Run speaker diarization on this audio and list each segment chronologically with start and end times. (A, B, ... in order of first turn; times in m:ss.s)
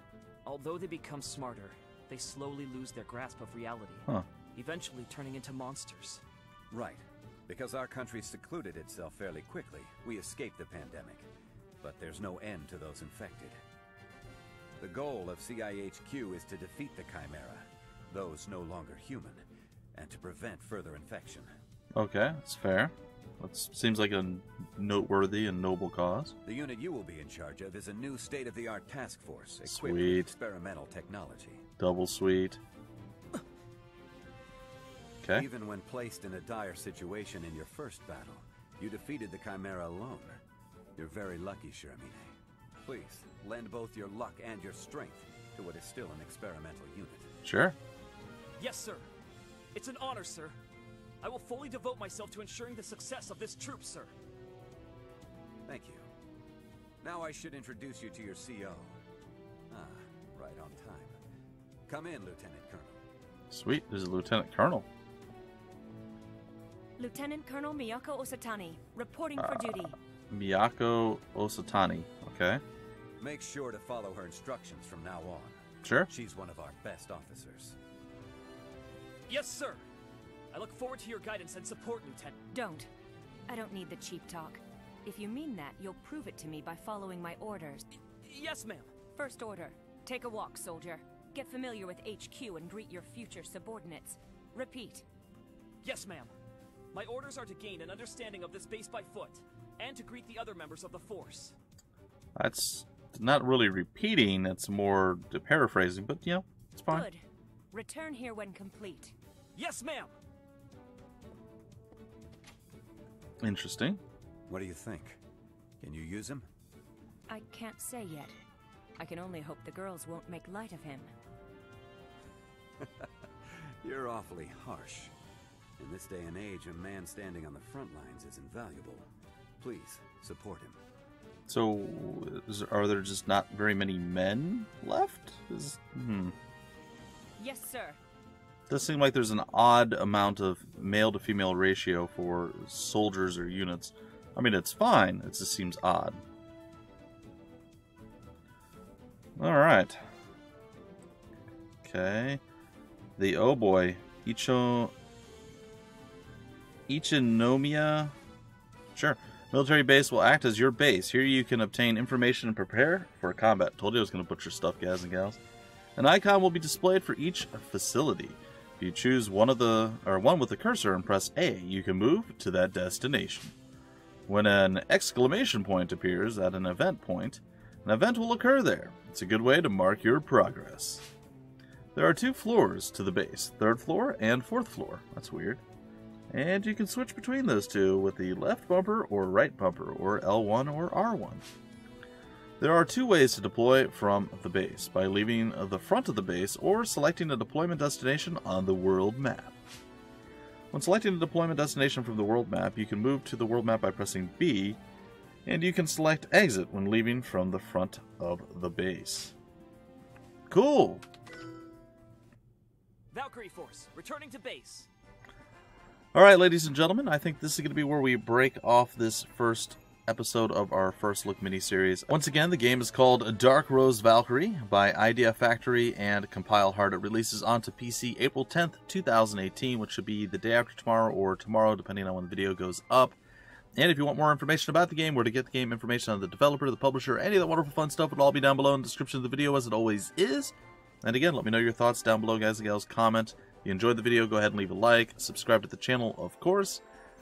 0:00.4-0:06.2 A
0:06.7-0:11.3 B
0:11.8-0:13.6 B
0:14.8-0:19.4 B
0:19.9-0:21.5 B
0:21.9-0:26.3 C
0:26.4-0:31.6 B
0:29.6-0:30.3 C
0:31.8-0:32.6 C
0:35.2-0:35.5 C
0:35.3-0:40.4 B
0:41.0-0:47.3 B
0:47.4-0:47.8 C
0:48.6-0:49.1 A
0:49.7-0:50.6 A
0:51.2-0:54.1 A
0:55.7-0:56.0 B
0:57.0-0:58.9 B
0:59.7-1:01.1 B
1:01.9-1:03.0 B
1:03.5-1:04.9 C
1:07.0-1:10.0 D
1:09.4-1:12.6 C
1:13.2-1:17.8 B
1:15.8-1:16.1 C
1:19.3-1:19.8 A
1:20.5-1:22.4 A
1:22.5-1:22.9 D
1:23.5-1:27.9 D
1:28.2-1:28.9 A
1:29.1-1:35.0 D
1:35.8-1:36.3 A
1:36.9-1:41.5 A
1:42.4-1:47.1 C
1:46.9-1:49.1 D
1:49.5-1:50.1 A
1:53.4-1:54.0 C
1:54.5-1:55.2 B
1:55.8-1:56.5 B
1:57.3-1:58.4 D
1:59.0-2:01.1 D
2:02.8-2:05.1 B
2:05.8-2:09.0 B
2:09.6-2:10.8 B
2:11.5-2:16.3 C
2:17.4-2:18.0 D
2:18.7-2:26.2 C
2:29.4-2:30.0 C
2:31.8-2:32.4 C
2:33.2-2:34.9 C
2:36.9-2:38.1 C
2:38.9-2:45.4 C
2:46.0-2:53.5 C
2:54.3-3:01.0 C
3:01.9-3:05.6 C
3:06.3-3:11.4 C
3:12.6-3:19.6 C
3:20.7-3:24.8 C
3:25.4-3:29.3 C
3:30.5-3:31.0 C
3:33.1-3:34.9 A
3:36.1-3:53.2 C
3:53.7-4:06.8 C